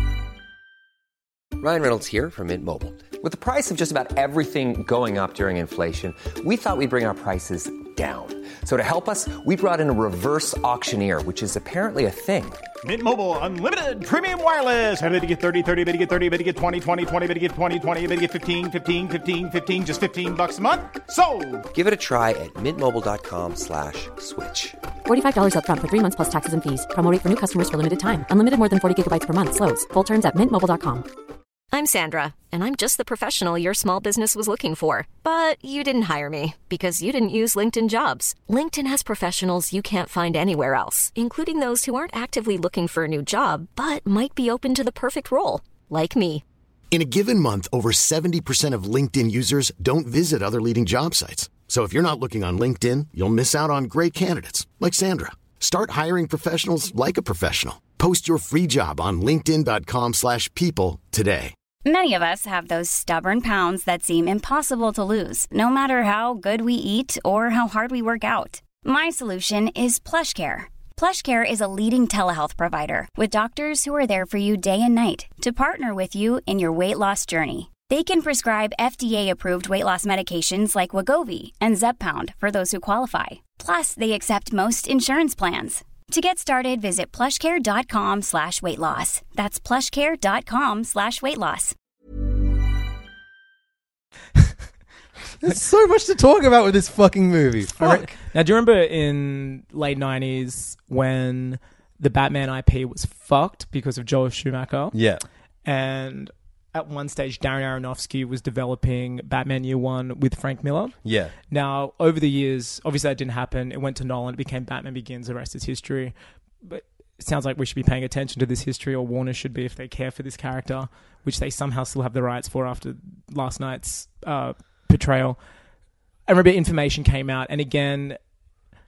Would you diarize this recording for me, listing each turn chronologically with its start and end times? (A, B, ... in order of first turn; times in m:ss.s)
0:01.6-0:12.6 A
0:12.8-0:21.7 B
0:21.7-0:24.8 A
0:25.0-0:31.0 C
0:31.7-0:46.4 D
0:46.9-1:01.5 E
1:01.8-1:31.7 F
1:35.4-1:38.1 G
1:37.8-1:45.0 H
1:44.9-1:45.2 G
1:45.6-1:50.9 H
1:51.0-1:51.3 G
1:51.5-2:05.4 H
2:06.3-2:08.2 H